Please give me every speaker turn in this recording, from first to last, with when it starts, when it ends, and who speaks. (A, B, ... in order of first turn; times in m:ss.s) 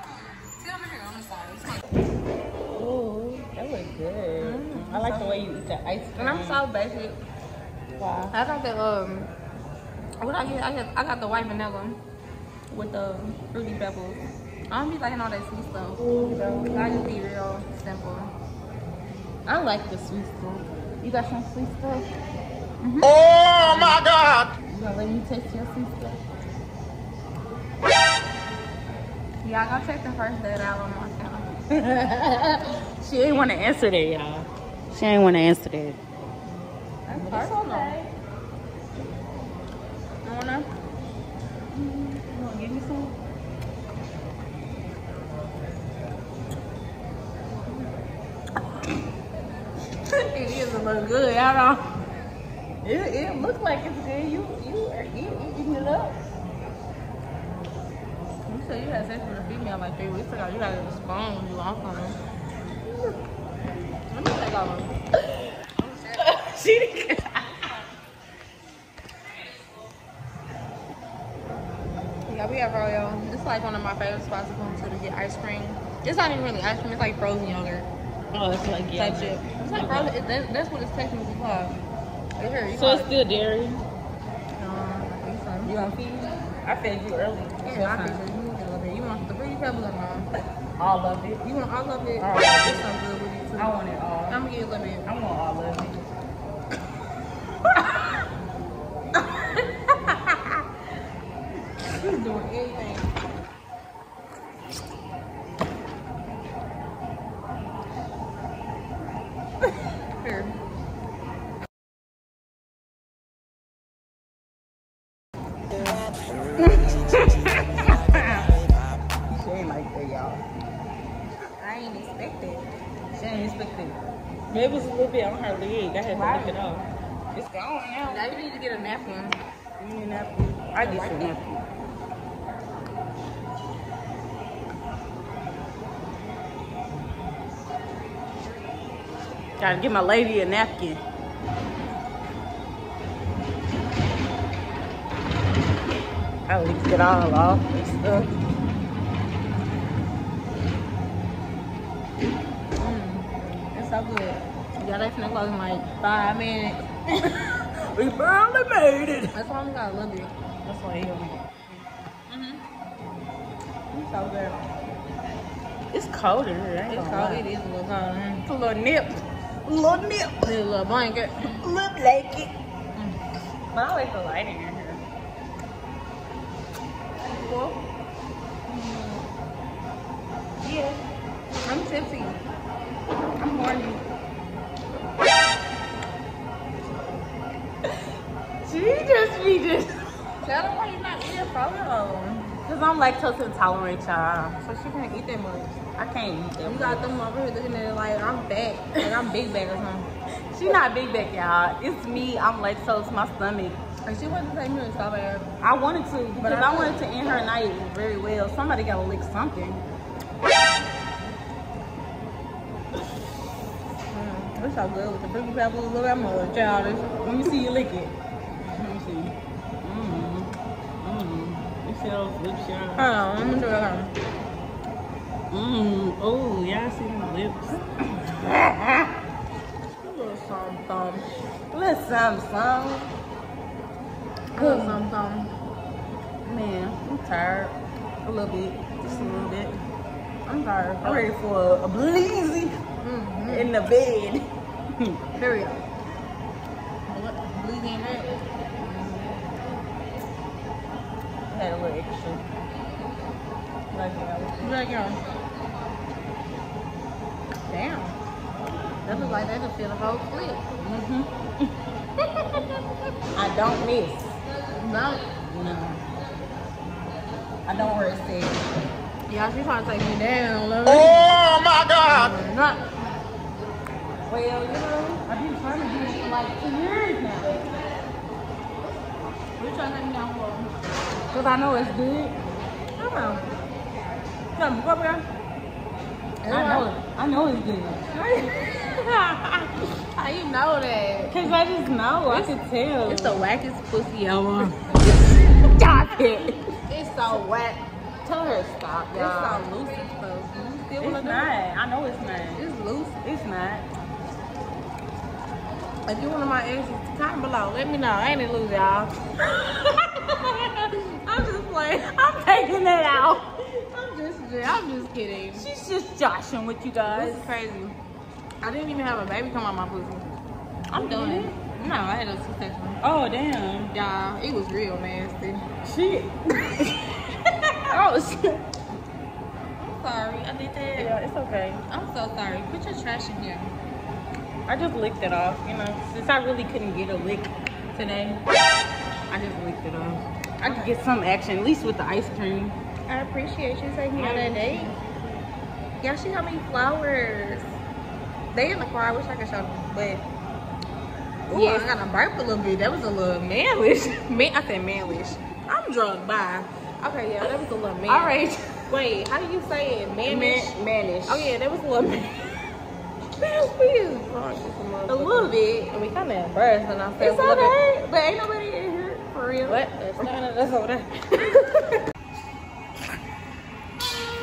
0:00.5-0:01.8 A
0:02.7-0:06.6 B
0:04.4-0:05.5 A
0:06.2-0:07.2 A
0:08.0-0:08.4 B
0:08.3-0:09.3 A
0:10.2-0:12.0 A
0:12.7-0:18.3 A
0:16.1-0:17.0 B
0:19.5-0:22.1 B
0:22.8-0:23.1 A
0:23.0-0:24.5 C
0:23.6-0:24.0 B
0:24.7-0:26.2 B
0:29.4-0:31.5 A
0:31.7-0:36.0 B
0:37.1-0:38.0 A
0:37.1-0:38.1 B
0:40.2-0:40.7 A
0:41.7-0:43.2 B
0:50.1-0:51.8 A
0:52.8-0:56.2 B
0:58.5-1:02.2 A
1:04.1-1:04.9 A
1:05.8-1:07.8 B
1:12.3-1:17.9 A
1:18.3-1:20.2 B
1:18.9-1:21.8 A
1:22.4-1:23.2 A
1:22.7-1:23.8 B
1:24.6-1:25.7 A
1:25.6-1:28.2 B
1:27.6-1:30.3 A
1:30.8-1:31.4 B
1:31.4-1:33.7 A
1:32.2-1:32.9 B
1:33.6-1:34.4 B
1:34.3-1:35.1 A
1:35.0-1:36.1 B
1:40.1-1:40.4 A
1:41.9-1:43.1 A
1:50.2-1:50.6 A
1:56.6-1:58.6 B
1:59.3-2:00.4 B
2:01.6-2:02.7 A
2:03.1-2:04.0 B
2:04.5-2:08.3 B
2:06.0-2:06.6 A
2:08.1-2:09.4 A
2:09.8-2:11.6 B
2:10.8-2:11.3 A
2:19.6-2:21.0 B
2:26.5-2:28.4 B
2:32.8-2:36.8 A
2:37.1-2:39.4 B
2:39.3-2:40.3 A
2:40.6-2:41.8 B
2:42.3-2:42.6 A
2:43.9-2:44.5 B
2:44.0-2:44.6 A
2:45.9-2:47.4 B
2:46.9-2:48.4 A
2:48.5-2:50.5 B
2:50.4-2:51.6 A
2:51.5-2:52.5 B
2:53.7-2:55.0 B
2:57.2-2:57.8 A
2:58.7-2:59.2 B
3:00.6-3:01.0 B
3:01.6-3:02.4 A
3:03.4-3:04.0 B
3:08.6-3:10.1 B
3:10.4-3:12.6 A
3:12.6-3:14.6 B
3:14.6-3:15.7 A
3:16.0-3:17.1 B
3:16.6-3:20.1 A
3:20.5-3:23.8 B
3:24.0-3:25.5 A
3:25.6-3:29.8 B
3:26.4-3:27.2 A
3:34.1-3:37.1 A
3:37.2-3:43.1 B
3:43.0-3:44.1 A
3:45.5-3:49.1 B
3:50.0-3:51.3 A
3:51.7-3:53.1 B
3:54.6-3:55.5 A
3:54.6-3:55.0 B
3:56.4-3:59.8 B
3:59.0-3:59.6 A
4:00.5-4:01.3 A
4:01.0-4:02.8 B
4:03.0-4:03.7 A
4:03.5-4:05.2 B
4:05.4-4:05.8 A
4:07.1-4:09.3 A
4:11.5-4:12.5 B
4:13.9-4:14.7 B
4:14.6-4:15.2 A
4:17.7-4:18.2 A
4:19.0-4:20.6 A
4:19.1-4:19.5 B
4:20.8-4:21.7 B
4:23.4-4:24.4 B
4:24.7-4:25.3 A
4:25.4-4:26.0 B
4:27.7-4:28.7 B
4:29.3-4:31.4 A
4:30.8-4:32.3 C
4:32.1-4:32.9 A
4:34.3-4:37.7 B
4:39.6-4:40.7 A
4:41.3-4:42.4 B
4:43.0-4:43.5 A
4:44.6-4:45.3 B
4:46.4-4:47.0 A
4:46.5-4:49.7 B
4:48.2-4:48.7 A
4:50.2-4:51.6 A
4:51.3-4:53.4 B
4:53.1-4:55.6 A
4:55.7-4:56.7 B
4:56.9-4:57.8 A
4:58.2-4:59.7 B
4:59.1-5:01.6 A
5:01.0-5:02.6 B
5:02.6-5:03.2 A
5:03.2-5:03.9 B
5:06.1-5:09.2 A
5:09.6-5:09.9 B
5:10.8-5:12.0 A
5:11.8-5:13.4 B
5:13.8-5:15.7 A
5:15.6-5:17.5 B
5:17.0-5:18.0 A
5:18.6-5:20.4 A
5:20.9-5:21.6 B
5:20.9-5:23.0 A
5:23.0-5:24.0 B
5:23.9-5:25.6 A
5:25.8-5:28.6 B
5:29.8-5:31.1 A
5:31.0-5:31.8 B
5:31.9-5:33.7 A
5:34.7-5:37.5 B
5:37.9-5:38.4 A
5:39.3-5:42.8 B
5:40.6-5:40.9 A
5:43.1-5:45.0 A
5:44.1-5:45.1 B
5:46.0-5:47.7 A
5:48.5-5:50.3 A
5:51.5-5:58.3 A
5:51.5-5:51.9 B
5:57.4-5:58.9 B
5:58.9-6:00.7 A
6:00.3-6:01.5 B
6:01.3-6:02.6 A
6:03.4-6:07.8 A
6:05.1-6:05.9 B
6:07.2-6:09.8 B
6:09.6-6:11.9 A